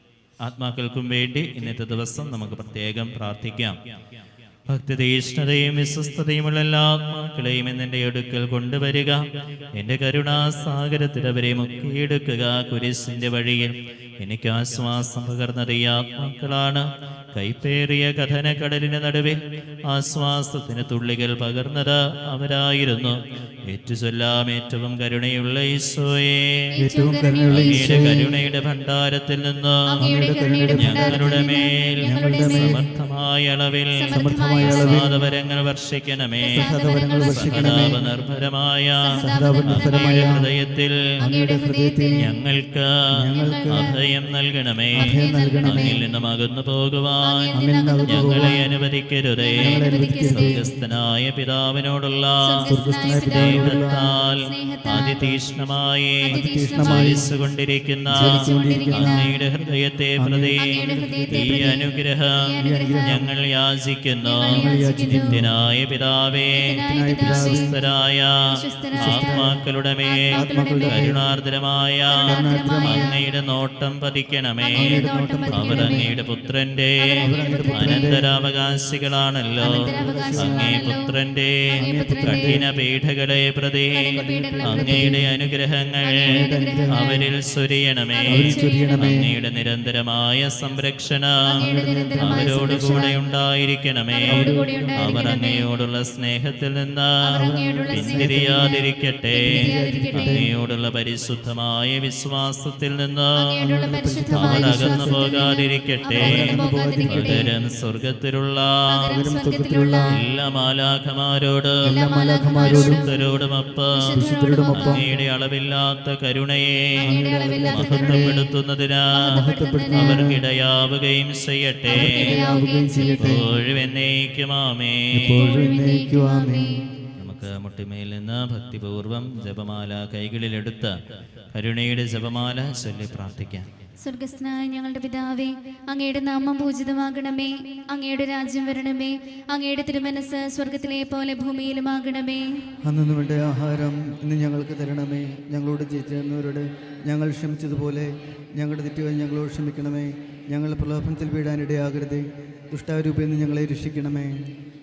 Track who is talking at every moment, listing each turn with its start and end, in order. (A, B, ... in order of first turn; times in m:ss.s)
0:00.4-0:03.8 A
0:04.7-0:09.2 A
0:09.8-0:26.7 A
0:26.8-0:28.2 B
0:26.8-0:28.3 C
0:27.5-0:29.9 A
0:29.9-0:32.8 B
0:30.0-0:32.8 C
0:30.7-0:36.6 A
0:34.0-0:34.9 B
0:34.1-0:35.1 C
0:36.4-0:37.9 B
0:36.6-0:38.0 C
0:37.2-0:41.1 A
0:39.0-0:40.3 B
0:39.2-0:40.5 C
0:41.2-0:42.3 C
0:41.2-0:42.3 B
0:42.2-0:43.1 A
0:43.2-0:43.9 C
0:43.3-0:43.9 B
0:43.7-0:47.5 A
0:45.0-0:46.0 B
0:45.0-0:46.0 C
0:47.2-0:48.6 B
0:47.5-0:48.6 C
0:48.0-1:02.5 A
0:49.4-0:50.6 B
0:49.6-0:50.6 C
0:52.4-0:55.3 B
0:52.7-0:54.0 C
0:56.2-0:57.2 B
0:56.3-0:57.2 C
0:58.1-0:59.3 C
0:58.2-0:59.3 B
1:00.2-1:01.8 C
1:00.6-1:01.8 B
1:02.4-1:03.2 B
1:02.6-1:03.3 C
1:03.0-1:06.7 A
1:04.2-1:05.3 B
1:04.5-1:05.5 C
1:06.5-1:07.7 B
1:06.9-1:07.7 C
1:07.2-1:26.4 A
1:08.5-1:09.4 B
1:09.0-1:09.6 C
1:10.0-1:11.2 B
1:10.3-1:11.2 C
1:12.1-1:13.2 B
1:12.2-1:13.1 C
1:14.6-1:16.1 B
1:14.8-1:16.1 C
1:17.0-1:18.1 B
1:17.2-1:18.2 C
1:19.6-1:20.9 C
1:19.6-1:21.1 B
1:21.7-1:22.6 B
1:21.8-1:22.6 C
1:23.9-1:25.2 B
1:24.1-1:25.2 C
1:26.0-1:27.2 B
1:26.2-1:27.2 C
1:26.9-1:31.6 A
1:28.1-1:29.2 B
1:28.3-1:29.3 C
1:31.5-1:33.2 B
1:31.6-1:33.1 C
1:32.2-1:37.2 A
1:34.1-1:35.6 B
1:34.3-1:35.4 C
1:37.2-1:40.4 B
1:37.4-1:38.8 C
1:37.9-1:43.5 A
1:39.4-1:40.4 C
1:43.4-1:47.5 B
1:43.6-1:45.5 C
1:44.3-1:48.9 A
1:46.1-1:47.5 C
1:48.9-1:50.2 B
1:49.1-1:50.2 C
1:50.1-1:51.9 A
1:51.8-1:53.0 C
1:51.9-1:53.1 B
1:52.6-1:54.1 A
1:54.0-1:55.0 B
1:54.1-1:55.0 C
1:54.7-1:57.1 A
1:57.0-1:58.4 C
1:57.0-1:58.4 B
1:57.7-2:02.4 A
1:59.1-2:00.3 B
1:59.3-2:00.4 C
2:01.8-2:03.4 B
2:01.9-2:03.5 C
2:03.2-2:05.4 A
2:05.1-2:06.8 C
2:05.3-2:06.8 B
2:07.2-2:11.0 A
2:11.5-2:13.7 A
2:14.0-2:22.5 B
2:22.8-2:34.4 C